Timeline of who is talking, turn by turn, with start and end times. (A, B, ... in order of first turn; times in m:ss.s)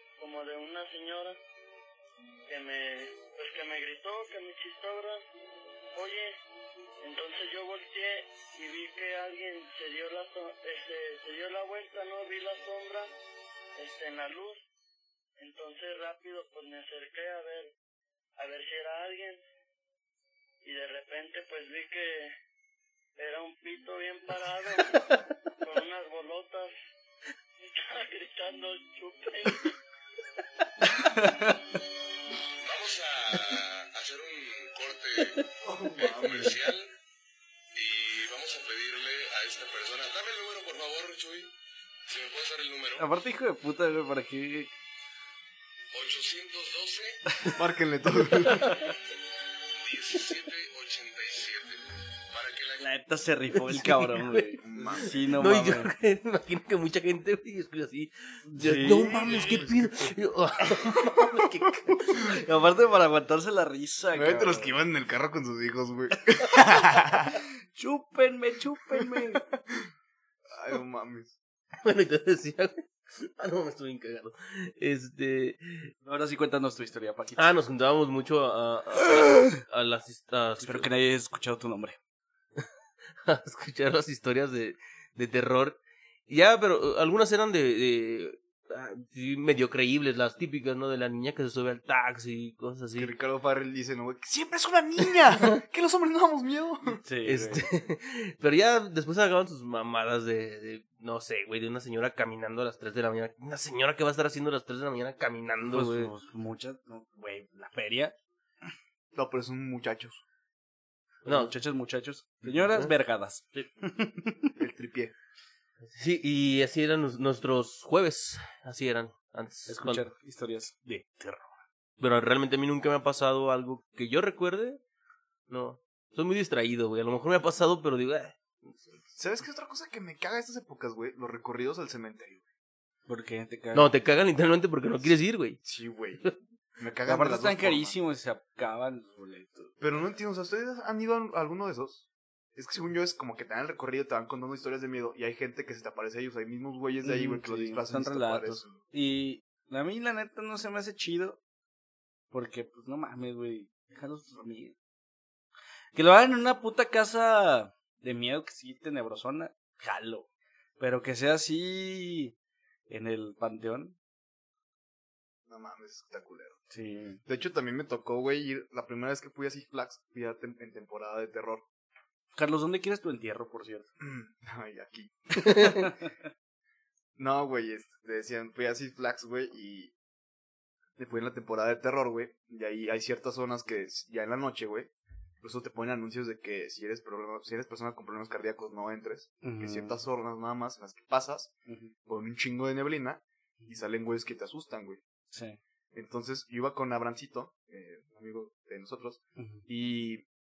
0:00.2-0:01.4 A
0:02.5-0:05.2 A
0:05.9-0:06.4 A
0:07.0-0:13.1 A
0:13.8-0:14.6 A
0:15.4-0:17.7 A
0:18.4-0:19.4 A
0:20.6-0:22.3 A
0:23.2-0:26.7 A
0:27.6-0:29.8 A
0:30.8-0:31.6 B
0:32.6-0:35.4 C
0:35.6-0:36.6 D
0:36.1-0:36.9 C
0:37.7-0:41.5 C
0:42.1-0:43.1 C
0:43.0-0:44.7 B
0:45.9-0:47.4 C
0:47.6-0:48.7 D
0:48.5-0:48.8 B
0:49.8-0:52.9 C
0:52.8-0:55.9 B
0:53.7-0:54.6 E
0:54.6-0:55.2 D
0:55.2-1:02.4 E
0:58.5-0:59.7 B
0:59.1-0:59.9 D
1:02.2-1:04.7 B
1:04.1-1:07.4 D
1:06.6-1:09.4 B
1:08.9-1:09.9 D
1:10.5-1:11.4 D
1:11.8-1:15.9 E
1:16.0-1:17.6 B
1:17.4-1:20.9 E
1:20.6-1:22.0 B
1:23.2-1:33.1 E
1:33.0-1:37.0 D
1:37.0-1:37.7 B
1:37.2-1:46.1 E
1:45.7-1:48.2 B
1:49.1-1:50.2 D
1:51.2-1:51.6 E
1:51.3-1:54.5 B
1:54.6-1:55.1 D
1:55.8-2:00.0 E
1:59.7-2:01.6 B
2:02.0-2:04.8 E
2:05.5-2:09.0 E
2:09.2-2:12.4 D
2:13.1-2:13.9 B
2:13.7-2:15.6 E
2:15.6-2:16.3 D
2:16.8-2:18.0 D
2:17.1-2:19.8 B
2:19.8-2:28.8 D
2:27.0-2:31.4 B
2:32.3-2:34.8 B
2:36.0-2:40.3 B
2:40.8-2:42.4 B
2:42.9-2:44.0 B
2:45.5-2:46.6 D
2:46.7-2:47.2 B
2:47.3-2:51.6 D
2:52.4-2:53.9 B
2:54.0-2:55.4 D
2:55.4-2:56.1 B
2:57.2-2:59.9 D
3:01.0-3:04.9 D
3:05.4-3:11.5 D
3:09.4-3:10.0 B
3:11.7-3:11.9 B
3:12.1-3:15.0 D
3:15.3-3:15.6 B
3:15.9-3:20.2 D
3:19.4-3:19.6 B